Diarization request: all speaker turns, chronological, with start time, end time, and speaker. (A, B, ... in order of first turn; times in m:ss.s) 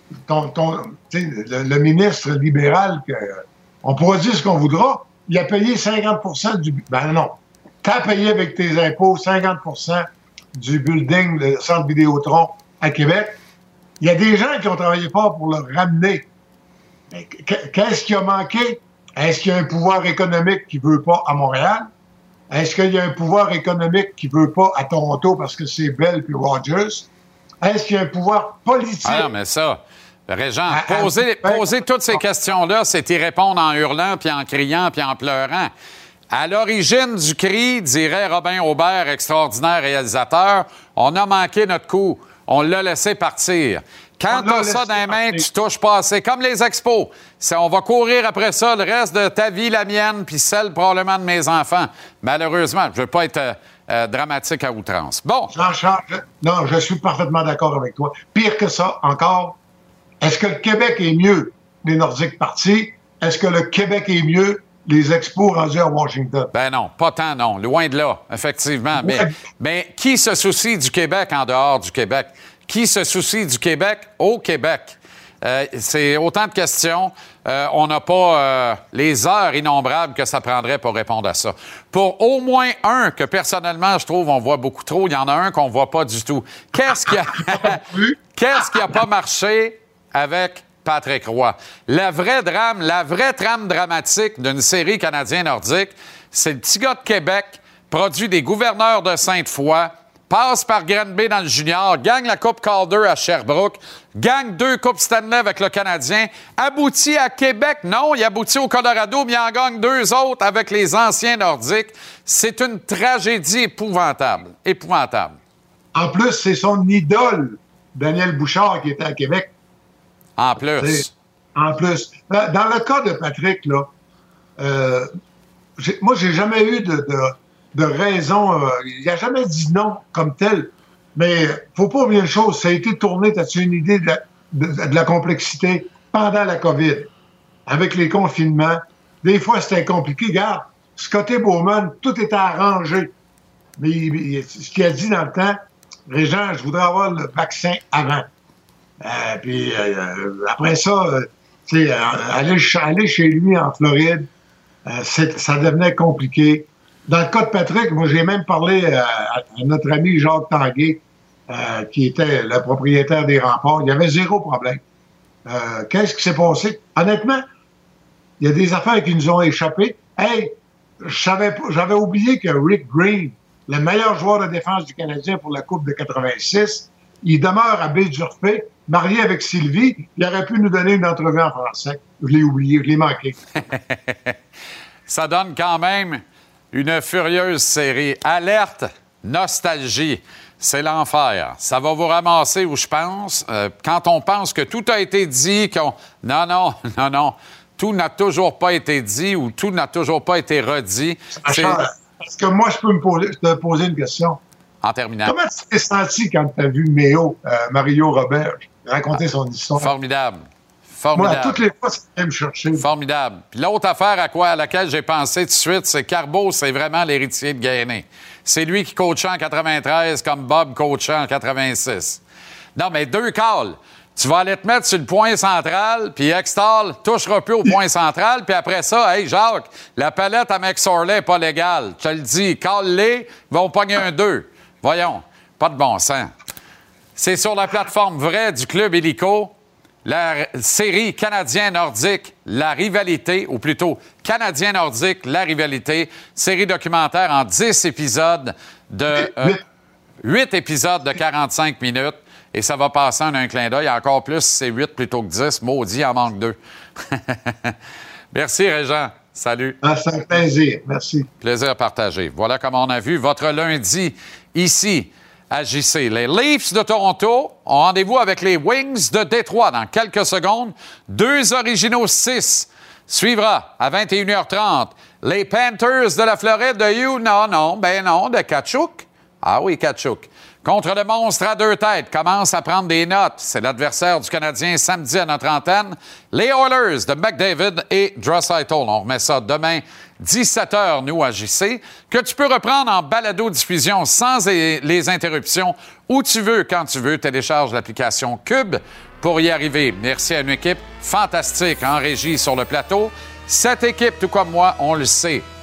0:00.2-0:13.4 A
0:14.0-0:16.2 A
0:17.1-0:21.9 A
0:22.5-0:27.1 A
0:27.6-0:29.3 A
0:29.0-0:35.7 B
0:30.7-0:32.2 A
0:36.3-0:55.5 B
0:44.3-0:45.4 A
0:55.5-0:59.6 A
1:00.2-1:06.5 A
1:06.5-1:27.8 B
1:09.0-1:09.3 A
1:27.0-1:28.9 A
1:28.3-1:55.4 B
1:55.9-1:59.5 A
2:00.4-2:01.1 B
2:00.8-2:03.9 A
2:04.6-2:05.1 A
2:05.8-2:17.1 A
2:17.7-2:23.1 A
2:23.8-2:28.3 A
2:29.0-2:34.3 A
2:34.8-2:44.8 A
2:45.4-2:47.4 A
2:48.4-3:03.4 A
3:03.7-3:04.3 B
3:05.1-3:21.8 B
3:21.4-3:24.4 A
3:24.8-3:25.3 B
3:25.2-3:29.9 A
3:29.8-3:30.4 B
3:31.0-3:31.6 B
3:31.2-3:32.9 A
3:32.7-3:42.2 B
3:42.8-3:56.3 B
3:57.2-3:59.5 B
4:00.0-4:09.6 B
4:09.2-4:09.6 A
4:10.2-4:16.6 B
4:17.1-4:17.7 B
4:18.3-4:19.8 B
4:19.8-4:21.3 A
4:21.4-5:05.4 B